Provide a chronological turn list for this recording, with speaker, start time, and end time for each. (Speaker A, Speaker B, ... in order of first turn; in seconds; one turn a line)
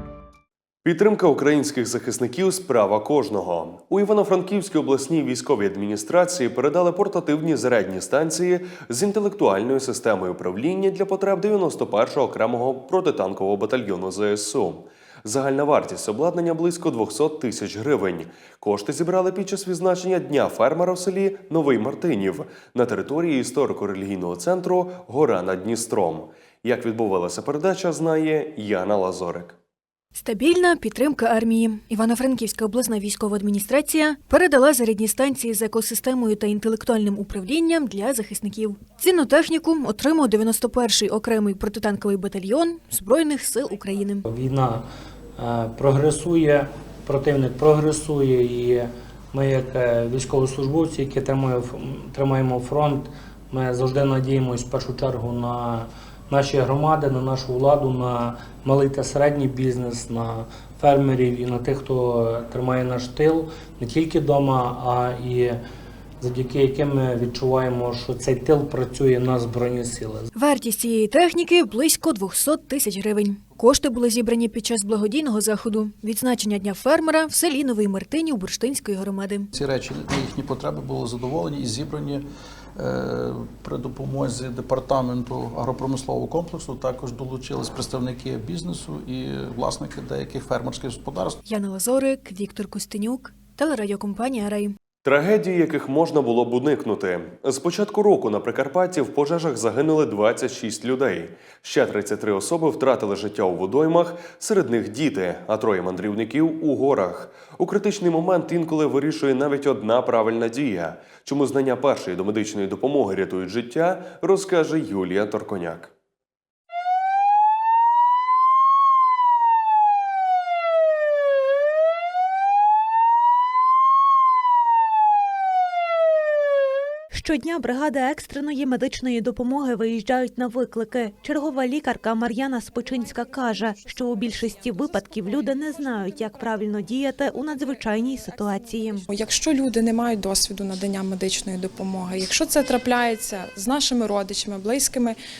Speaker A: 0.8-29.6
Speaker B: 30.1-44.2
Speaker C: 44.2-44.8
Speaker C: 45.4-65.6
Speaker C: 66.2-70.3
Speaker B: 70.3-79.5
Speaker D: 79.5-82.2
Speaker D: 82.8-91.4
Speaker B: 91.5-94.8
Speaker A: 95.0-115.9
Speaker E: 127.1-139.1
Speaker F: 139.1-145.2